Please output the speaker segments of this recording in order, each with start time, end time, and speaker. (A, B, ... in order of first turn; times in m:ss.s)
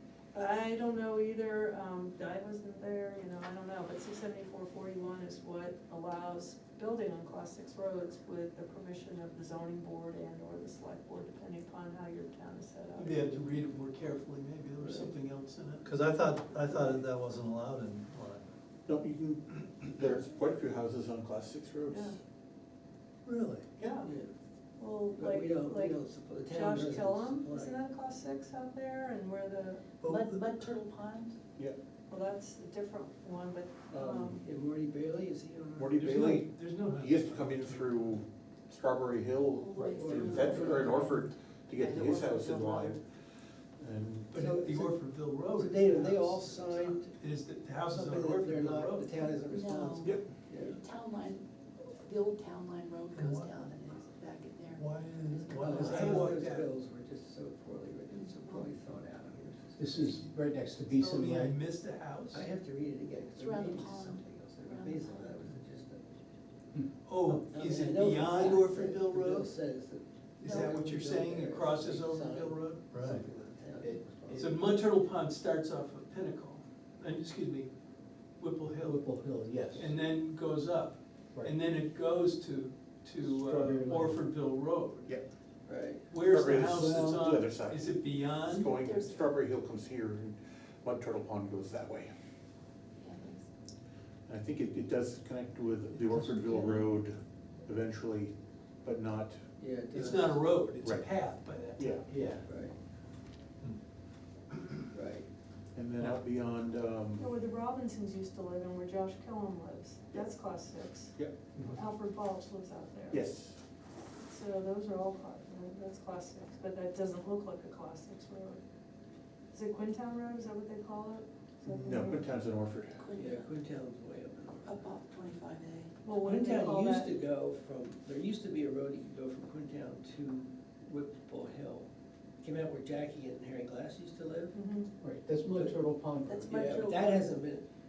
0:00.3-0:13.3 A
0:13.0-0:15.9 B
0:14.8-0:15.1 C
0:15.8-0:18.4 D
0:18.9-0:22.2 E
0:21.9-0:22.2 A
0:23.2-0:23.7 D
0:23.8-0:24.1 A
0:24.0-0:24.3 C
0:24.8-0:29.8 A
0:25.2-0:27.8 C
0:30.0-0:30.4 D
0:30.0-0:31.4 F
0:32.1-0:34.5 A
0:33.9-0:36.0 C
0:33.9-0:34.3 E
0:35.8-0:43.0 E
0:35.9-0:37.9 B
0:39.5-0:42.9 F
0:39.9-0:41.1 C
0:43.8-0:44.4 E
0:44.3-0:49.3 B
0:44.4-0:45.0 C
0:45.5-0:47.1 C
0:47.9-0:50.8 C
0:49.5-0:56.3 F
0:50.0-0:50.3 E
0:53.1-0:53.6 D
0:54.7-0:56.3 D
0:55.6-1:00.2 C
0:55.7-0:56.7 B
0:58.1-0:58.7 F
0:59.8-1:01.6 G
1:00.9-1:02.5 B
1:02.3-1:06.0 C
1:03.3-1:05.5 F
1:07.0-1:09.5 B
1:07.4-1:14.5 C
1:10.4-1:12.9 B
1:10.4-1:10.8 F
1:12.9-1:13.2 D
1:13.0-1:13.2 G
1:13.8-1:14.6 G
1:14.4-1:17.7 B
1:18.4-1:19.1 B
1:18.8-1:20.0 G
1:19.8-1:25.1 B
1:23.2-1:24.2 G
1:25.7-1:26.0 C
1:26.1-1:28.7 B
1:26.2-1:27.9 E
1:26.7-1:27.1 G
1:28.4-1:32.1 E
1:28.5-1:29.3 F
1:33.0-1:33.5 F
1:34.3-1:39.4 E
1:39.6-1:40.4 C
1:39.9-1:41.9 B
1:40.8-1:41.1 E
1:41.8-1:42.1 E
1:42.1-1:42.4 G
1:42.4-1:42.8 C
1:44.9-1:45.3 C
1:45.7-1:47.3 E
1:47.2-1:53.2 A
1:53.1-1:53.6 E
1:54.2-1:58.6 A
1:59.5-2:02.3 A
2:01.7-2:03.1 E
2:03.0-2:03.5 F
2:03.2-2:04.8 C
2:04.6-2:05.9 F
2:06.0-2:07.1 A
2:06.2-2:11.9 C
2:12.4-2:14.5 C
2:14.5-2:14.9 A
2:15.0-2:16.5 G
2:15.5-2:15.9 C
2:16.3-2:17.4 F
2:16.5-2:17.6 C